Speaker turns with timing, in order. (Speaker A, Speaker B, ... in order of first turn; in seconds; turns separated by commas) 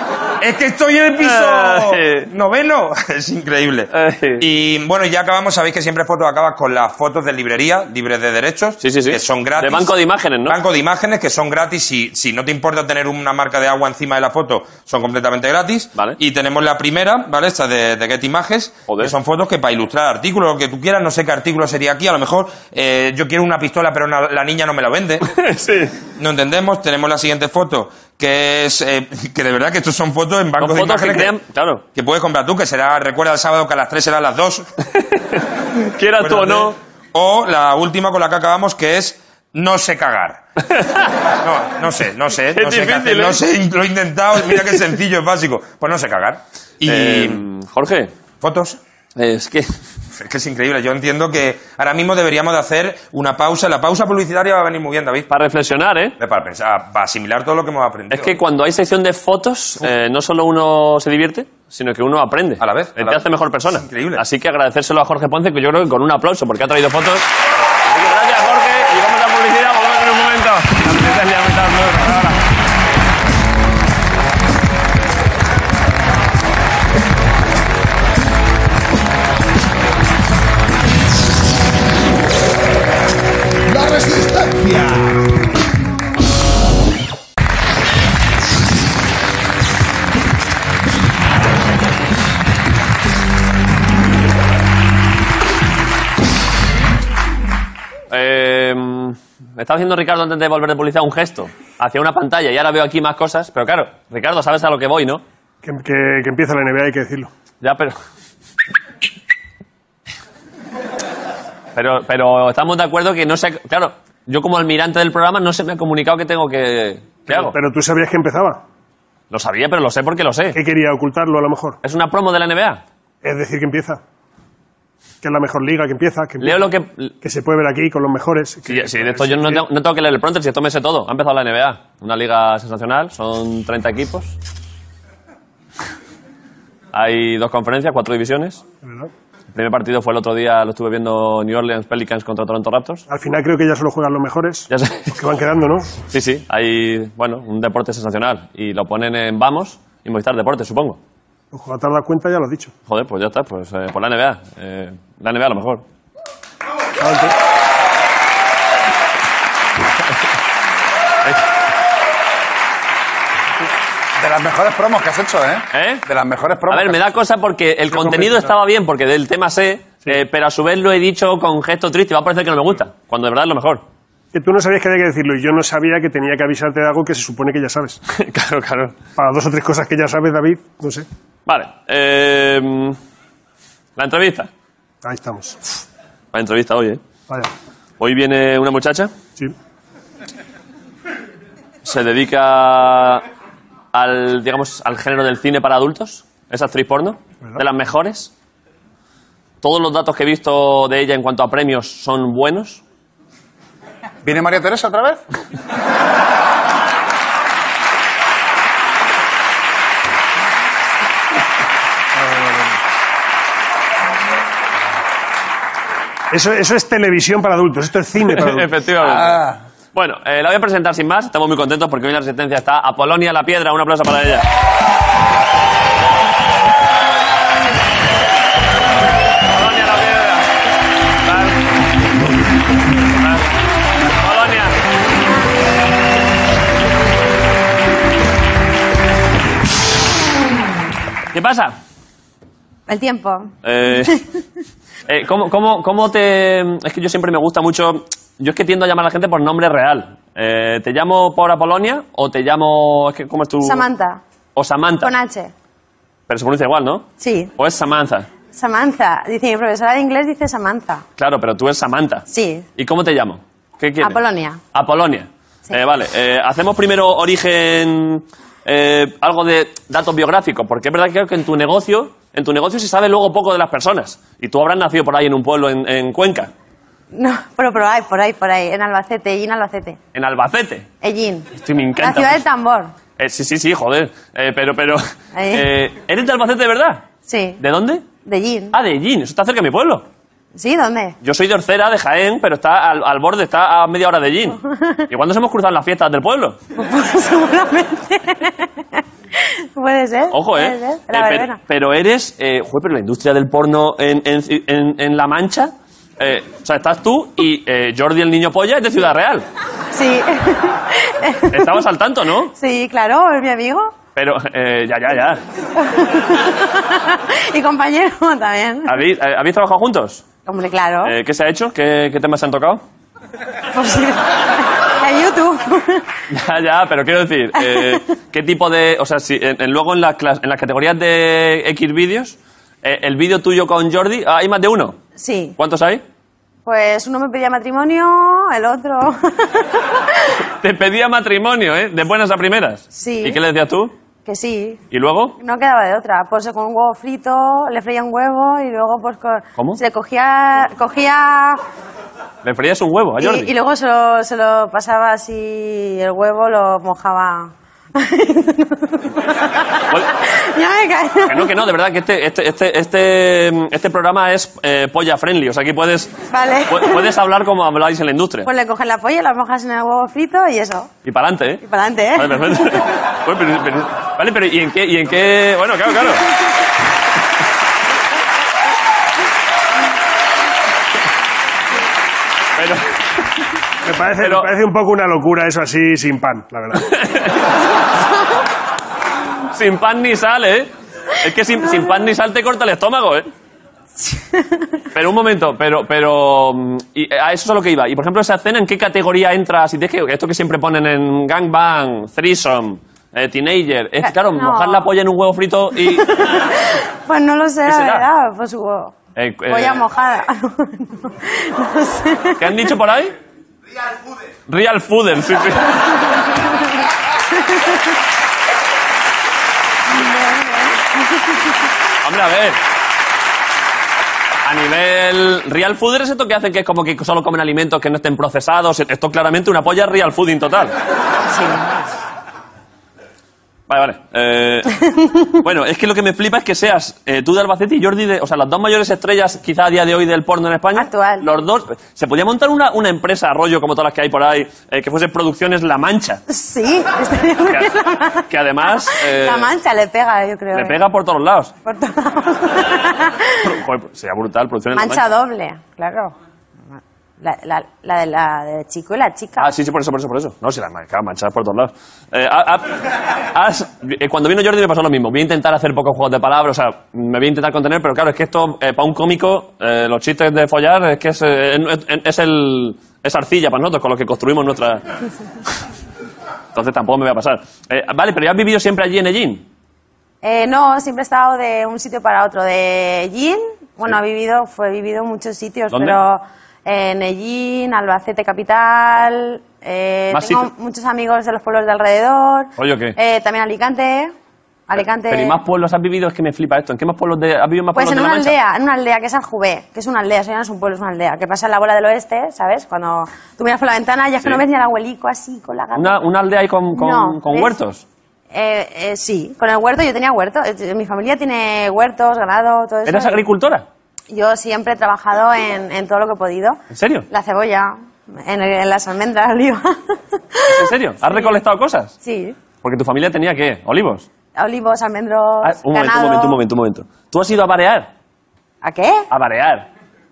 Speaker A: 0.4-25.3, Speaker B: 1.2-2.3, Speaker B: 3.9-4.5, Speaker B: 8.8-10.6, Speaker B: 18.9-19.1, Speaker B: 25.2-25.9, Speaker A: 26.2-31.4, Speaker B: 30.6-31.8, Speaker A: 31.9-34.7, Speaker B: 34.9-36.8, Speaker A: 36.2-40.4, Speaker B: 40.6-41.2, Speaker A: 41.4-47.4, Speaker B: 42.5-43.4, Speaker B: 46.9-48.1, Speaker A: 48.4-48.8, Speaker B: 49.2-49.7, Speaker A: 50.1-55.3, Speaker B: 55.3-56.2, Speaker A: 56.2-58.4, Speaker B: 58.1-67.3, Speaker A: 62.6-64.2, Speaker B: 67.9-72.4, Speaker C: 83.8-85.1, Speaker B: 98.1-105.2, Speaker D: 105.6-107.3, Speaker B: 107.6-108.0, Speaker B: 111.8-117.6, Speaker D: 117.3-118.6, Speaker B: 119.3-120.6, Speaker D: 120.5-121.8, Speaker B: 121.8-122.8, Speaker D: 123.2-124.0, Speaker D: 125.2-126.6, Speaker B: 126.4-127.2, Speaker D: 127.2-129.6, Speaker B: 128.7-134.3, Speaker B: 136.9-138.6, Speaker D: 138.8-139.1, Speaker B: 139.5-143.0, Speaker D: 143.1-145.9, Speaker B: 144.7-145.2, Speaker B: 146.1-151.0, Speaker D: 151.5-152.7, Speaker B: 152.9-155.8, Speaker D: 157.0-157.3, Speaker C: 164.2-167.0, Speaker B: 165.7-166.0, Speaker B: 166.7-173.8, Speaker D: 167.9-168.5, Speaker D: 174.3-178.0, Speaker B: 178.1-179.0, Speaker D: 179.2-181.1, Speaker B: 181.5-183.0, Speaker B: 184.0-184.5, Speaker D: 185.0-185.6, Speaker B: 186.3-187.0, Speaker B: 188.0-189.1, Speaker B: 191.8-193.2, Speaker B: 193.9-198.3, Speaker B: 199.6-202.8, Speaker C: 204.2-205.2, Speaker D: 212.2-212.8, Speaker D: 216.3-218.7, Speaker B: 218.3-224.5, Speaker C: 219.0-219.6, Speaker B: 229.5-230.5, Speaker B: 231.2-231.6, Speaker B: 233.1-233.5, Speaker B: 234.1-234.8, Speaker B: 241.3-241.8, Speaker E: 242.9-244.2, Speaker B: 243.6-244.2, Speaker B: 245.1-253.9, Speaker E: 253.6-254.2, Speaker B: 254.6-255.1, Speaker E: 255.0-255.5, Speaker B: 256.3-258.3, Speaker E: 257.2-257.5, Speaker E: 258.5-261.1, Speaker B: 261.2-262.3, Speaker E: 262.3-262.7, Speaker B: 262.8-264.2, Speaker E: 264.0-264.6, Speaker B: 264.7-276.5, Speaker E: 277.1-280.0, Speaker B: 280.1-280.9, Speaker E: 281.0-282.9, Speaker B: 281.5-282.4, Speaker B: 283.2-287.0, Speaker E: 285.4-285.7, Speaker E: 287.3-287.6, Speaker B: 287.6-288.1, Speaker E: 288.2-288.8, Speaker B: 288.7-290.1, Speaker E: 290.6-291.2, Speaker B: 291.2-296.6, Speaker E: 294.6-295.0, Speaker E: 296.8-301.6, Speaker B: 300.3-309.5, Speaker E: 309.9-311.8, Speaker B: 311.5-312.6, Speaker E: 312.6-313.9, Speaker B: 314.1-315.4, Speaker E: 315.8-319.0, Speaker B: 318.9-320.2, Speaker E: 320.5-321.1, Speaker B: 321.0-322.8, Speaker E: 323.7-326.1, Speaker B: 326.3-335.0, Speaker E: 327.6-328.0, Speaker E: 335.2-335.6, Speaker B: 335.6-336.0, Speaker E: 336.7-340.3, Speaker B: 340.5-343.9, Speaker E: 342.9-343.4, Speaker E: 344.3-344.8, Speaker B: 344.9-345.4, Speaker E: 345.4-351.6, Speaker B: 352.4-353.5, Speaker E: 353.2-361.6, Speaker B: 361.3-366.1, Speaker E: 366.3-367.2, Speaker B: 366.7-368.5, Speaker E: 368.4-370.9, Speaker B: 371.0-371.6, Speaker E: 371.6-372.9, Speaker B: 372.1-376.3, Speaker B: 382.6-382.9, Speaker D: 383.8-386.9, Speaker B: 384.2-384.5, Speaker B: 386.8-387.6, Speaker B: 389.5-393.3, Speaker E: 394.0-394.7, Speaker B: 394.9-406.1, Speaker E: 404.0-404.9, Speaker E: 405.8-408.9, Speaker B: 407.7-408.1, Speaker B: 409.2-409.8, Speaker E: 409.5-412.5, Speaker B: 412.4-413.1, Speaker B: 414.5-415.8, Speaker E: 417.3-417.8, Speaker E: 419.9-421.4, Speaker B: 422.0-422.6, Speaker B: 424.4-430.7, Speaker E: 431.3-431.9, Speaker B: 433.7-434.8, Speaker B: 435.3-446.2, Speaker E: 440.8-441.3, Speaker E: 446.3-450.8, Speaker B: 448.3-449.5, Speaker B: 450.5-451.5, Speaker E: 451.6-453.5, Speaker B: 453.4-455.0, Speaker E: 454.7-456.1, Speaker E: 457.2-459.5, Speaker B: 459.4-462.8, Speaker B: 463.3-474.8, Speaker B: 476.5-479.4, Speaker E: 480.2-494.1, Speaker B: 485.7-486.0, Speaker B: 490.1-490.5, Speaker B: 492.6-493.0, Speaker E: 494.7-495.4, Speaker B: 495.1-498.4, Speaker E: 497.7-506.0, Speaker B: 505.8-507.8, Speaker E: 506.7-507.6, Speaker E: 508.3-513.2, Speaker B: 512.9-513.6, Speaker E: 514.1-521.4, Speaker B: 516.7-517.1, Speaker B: 520.5-521.9, Speaker E: 522.0-522.4, Speaker B: 522.6-524.1, Speaker E: 524.4-526.4, Speaker B: 525.4-527.9, Speaker E: 528.6-529.1, Speaker B: 529.1-529.7